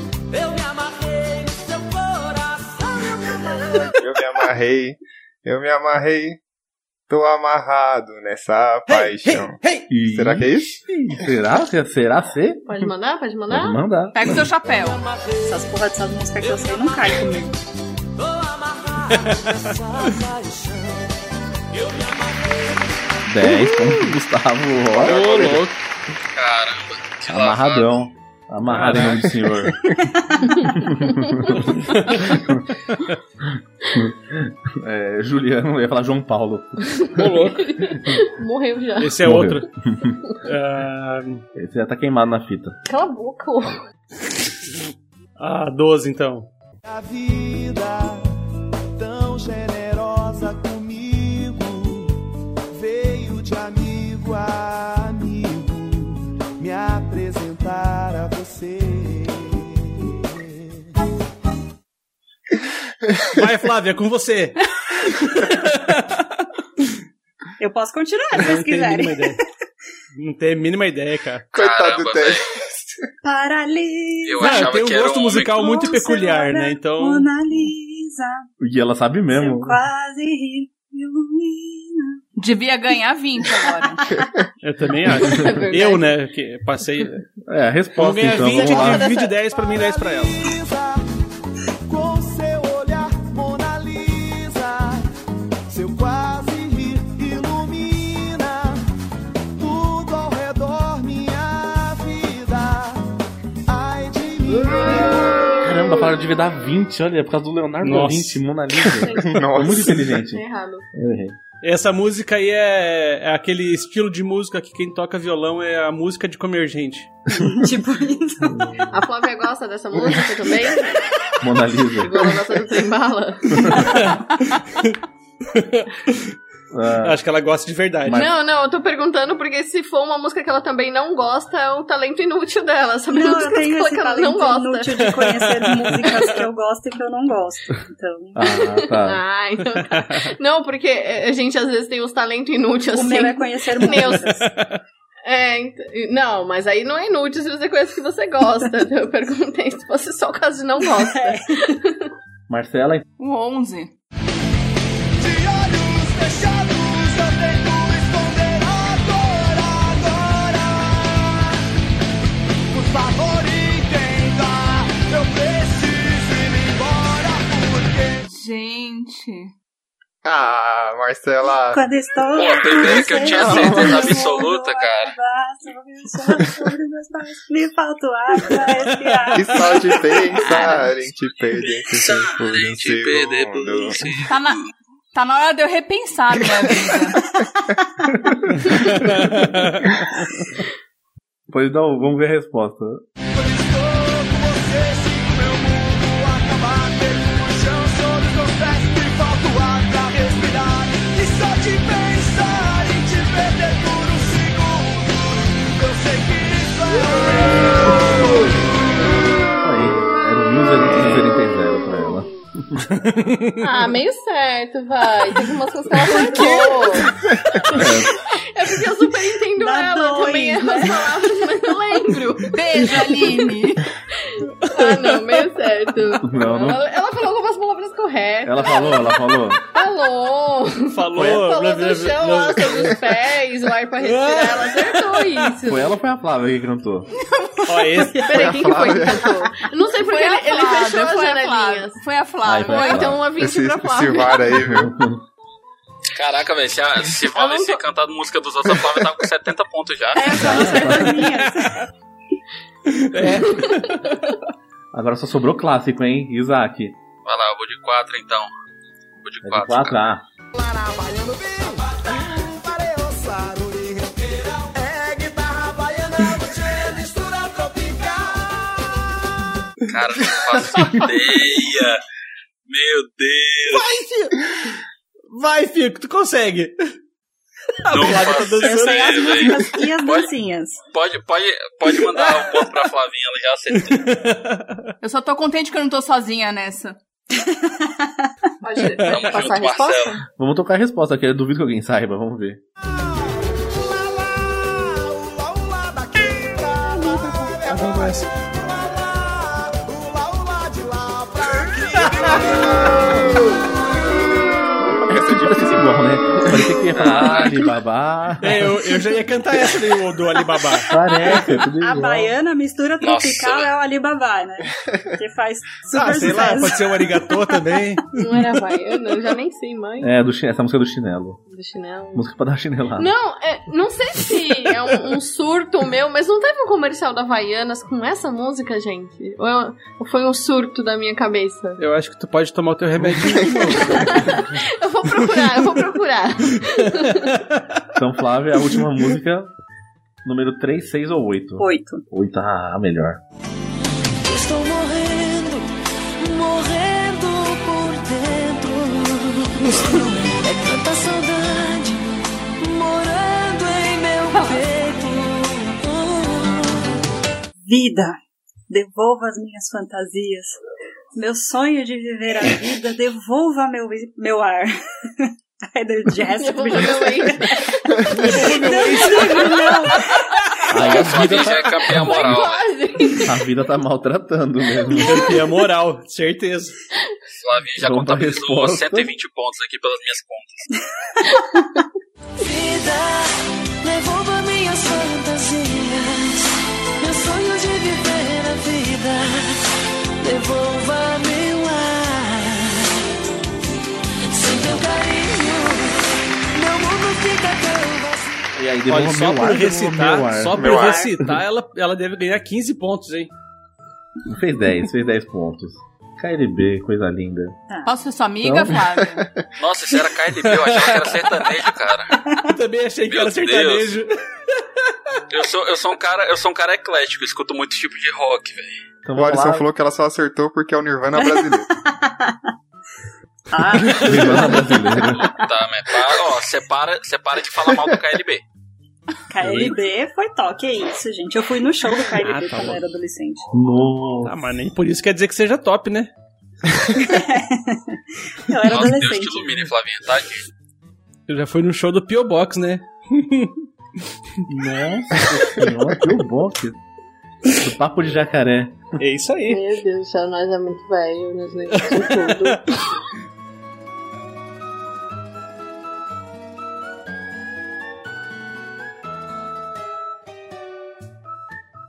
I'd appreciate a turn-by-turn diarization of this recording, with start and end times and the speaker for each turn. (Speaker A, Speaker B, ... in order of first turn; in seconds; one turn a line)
Speaker A: 0.3-2.9
Speaker B: 4.0-6.4
Speaker B: 7.1-10.8
Speaker C: 8.9-9.9
Speaker D: 9.9-12.9
Speaker E: 12.7-13.8
Speaker D: 13.5-14.4
Speaker F: 14.1-15.0
Speaker G: 15.4-17.6
Speaker C: 19.1-19.4
Speaker A: 21.8-22.6
Speaker D: 23.2-25.7
Speaker B: 24.9-25.6
Speaker C: 25.0-25.7
Speaker H: 26.4-28.1
Speaker D: 27.3-29.9
Speaker C: 28.6-29.4
Speaker E: 30.5-31.4
Speaker D: 30.6-32.6
Speaker C: 31.7-33.1
Speaker D: 33.9-38.2
Speaker C: 37.1-37.7
Speaker E: 37.5-39.2
Speaker C: 39.0-39.7
Speaker D: 39.2-40.2
Speaker C: 40.4-41.4
Speaker D: 41.5-42.8
Speaker E: 42.9-43.8
Speaker C: 45.4-46.5
Speaker I: 46.8-48.3
Speaker I: 49.0-52.2
Speaker I: 52.7-60.6
Speaker C: 63.3-66.2
Speaker G: 67.6-69.4
Speaker C: 68.3-69.4
Speaker C: 70.2-71.5
Speaker H: 71.5-72.5
Speaker B: 71.5-73.0
Speaker G: 73.2-74.7
Speaker H: 74.2-75.7
Speaker C: 74.4-77.3
Speaker G: 75.6-78.4
Speaker D: 78.6-79.8
Speaker G: 79.3-82.2
Speaker F: 82.4-84.0
Speaker C: 84.6-87.2
Speaker E: 85.2-86.0
Speaker D: 87.4-89.1
Speaker C: 87.9-90.5
Speaker E: 88.5-89.3
Speaker I: 89.3-91.0
Speaker I: 91.8-95.1
Speaker I: 95.7-98.8
Speaker I: 99.6-103.0
Speaker I: 103.7-105.6
Speaker D: 105.6-111.4
Speaker C: 107.8-108.4
Speaker E: 109.0-109.3
Speaker B: 109.2-110.1
Speaker E: 110.3-110.8
Speaker C: 111.6-117.1
Speaker G: 117.3-118.7
Speaker E: 118.9-121.0
Speaker D: 121.4-122.5
Speaker E: 122.0-124.0
Speaker D: 123.5-123.9
Speaker C: 123.8-124.9
Speaker C: 125.5-126.2
Speaker D: 126.7-127.2
Speaker C: 127.0-128.3
Speaker D: 128.0-128.3
Speaker E: 128.1-135.1
Speaker G: 133.1-138.4
Speaker C: 135.2-136.3
Speaker D: 138.3-139.2
Speaker E: 138.4-144.3
Speaker C: 139.9-140.2
Speaker G: 142.9-144.5
Speaker C: 144.4-144.7
Speaker E: 145.2-152.0
Speaker G: 150.9-151.4
Speaker D: 152.5-153.0
Speaker F: 153.2-153.9
Speaker I: 155.2-161.6
Speaker I: 162.7-168.2
Speaker F: 168.2-169.5
Speaker B: 170.2-171.8
Speaker G: 171.7-180.0
Speaker H: 172.3-175.1
Speaker D: 173.2-174.1
Speaker C: 178.5-179.4
Speaker B: 179.3-184.2
Speaker F: 180.5-180.9
Speaker H: 181.6-184.5
Speaker F: 184.2-184.6
Speaker F: 185.1-187.2
Speaker D: 188.2-189.4
Speaker C: 188.6-190.3
Speaker D: 191.5-193.0
Speaker I: 193.3-208.6
Speaker D: 209.6-212.8
Speaker C: 212.9-213.6
Speaker E: 213.6-217.1
Speaker E: 217.6-222.6
Speaker D: 217.7-218.1
Speaker G: 219.6-221.1
Speaker F: 222.5-223.9
Speaker E: 224.3-235.9
Speaker C: 224.7-225.2
Speaker D: 226.2-226.8
Speaker D: 228.4-229.6
Speaker C: 230.9-233.0
Speaker C: 234.0-235.4
Speaker D: 235.6-237.1
Speaker F: 237.4-238.0
Speaker C: 237.7-238.2
Speaker E: 238.1-242.0
Speaker B: 238.3-239.3
Speaker F: 239.9-243.2
Speaker D: 242.4-243.2
Speaker E: 242.7-244.5
Speaker B: 243.4-244.9
Speaker D: 244.5-245.2
Speaker H: 246.1-250.7
Speaker E: 247.3-247.8
Speaker G: 250.1-251.8
Speaker D: 250.4-251.2
Speaker C: 250.8-251.4
Speaker C: 252.9-254.3
Speaker D: 254.9-257.0
Speaker H: 257.2-258.5
Speaker H: 259.2-260.0
Speaker D: 259.4-260.2
Speaker I: 260.5-268.9
Speaker H: 269.9-272.0
Speaker C: 270.8-271.1
Speaker H: 272.7-273.9
Speaker C: 273.7-274.3
Speaker C: 275.3-276.8
Speaker C: 277.8-279.7
Speaker H: 277.9-280.3
Speaker G: 278.3-280.8
Speaker H: 280.9-284.1
Speaker C: 283.7-284.9
Speaker F: 285.0-287.0
Speaker E: 288.6-290.2
Speaker C: 288.9-289.3
Speaker H: 289.1-290.2
Speaker D: 290.4-292.6
Speaker I: 292.9-303.7
Speaker C: 297.6-298.3
Speaker C: 302.0-302.4
Speaker D: 304.9-308.8
Speaker B: 305.1-305.6
Speaker H: 306.9-307.5
Speaker C: 308.4-310.9
Speaker D: 310.9-312.3
Speaker G: 310.9-317.6
Speaker H: 313.0-313.7
Speaker C: 315.9-318.0
Speaker E: 318.1-320.1
Speaker D: 320.0-321.4
Speaker E: 321.5-322.3
Speaker D: 322.1-323.1
Speaker E: 323.0-331.8
Speaker C: 331.8-334.5
Speaker E: 333.8-337.3
Speaker C: 336.6-337.8
Speaker D: 337.9-339.5
Speaker D: 340.2-343.2
Speaker G: 341.6-342.0
Speaker A: 344.2-356.8
Speaker G: 357.6-358.2
Speaker G: 358.7-360.6
Speaker G: 361.1-370.3
Speaker E: 366.4-369.5
Speaker C: 368.1-370.0
Speaker D: 370.7-372.4
Speaker H: 370.8-372.7
Speaker E: 371.9-373.4
Speaker D: 373.2-375.3
Speaker C: 375.0-376.8
Speaker H: 377.4-380.7
Speaker D: 377.8-379.1
Speaker A: 382.4-389.6
Speaker A: 390.2-392.9
Speaker A: 394.3-396.0
Speaker A: 396.5-398.4
Speaker D: 398.5-401.4
Speaker C: 398.9-403.3
Speaker B: 400.6-401.0
Speaker G: 400.6-401.1
Speaker D: 404.2-407.6
Speaker F: 407.8-409.3
Speaker D: 408.4-408.8
Speaker H: 409.6-412.1
Speaker C: 410.4-411.2
Speaker C: 412.4-414.9
Speaker H: 413.1-414.0
Speaker H: 415.3-418.8
Speaker D: 419.0-419.7
Speaker B: 419.1-421.7
Speaker G: 421.1-422.4
Speaker G: 423.5-425.3
Speaker D: 423.8-425.2
Speaker H: 425.0-428.4
Speaker G: 429.3-433.5
Speaker D: 429.4-429.7
Speaker C: 432.1-432.9
Speaker D: 433.5-434.4
Speaker C: 434.2-436.1
Speaker G: 437.0-439.7
Speaker H: 438.7-440.4
Speaker C: 441.3-443.6
Speaker D: 444.5-446.8
Speaker D: 447.5-448.8
Speaker C: 449.0-449.6
Speaker E: 449.5-452.7
Speaker C: 451.7-452.6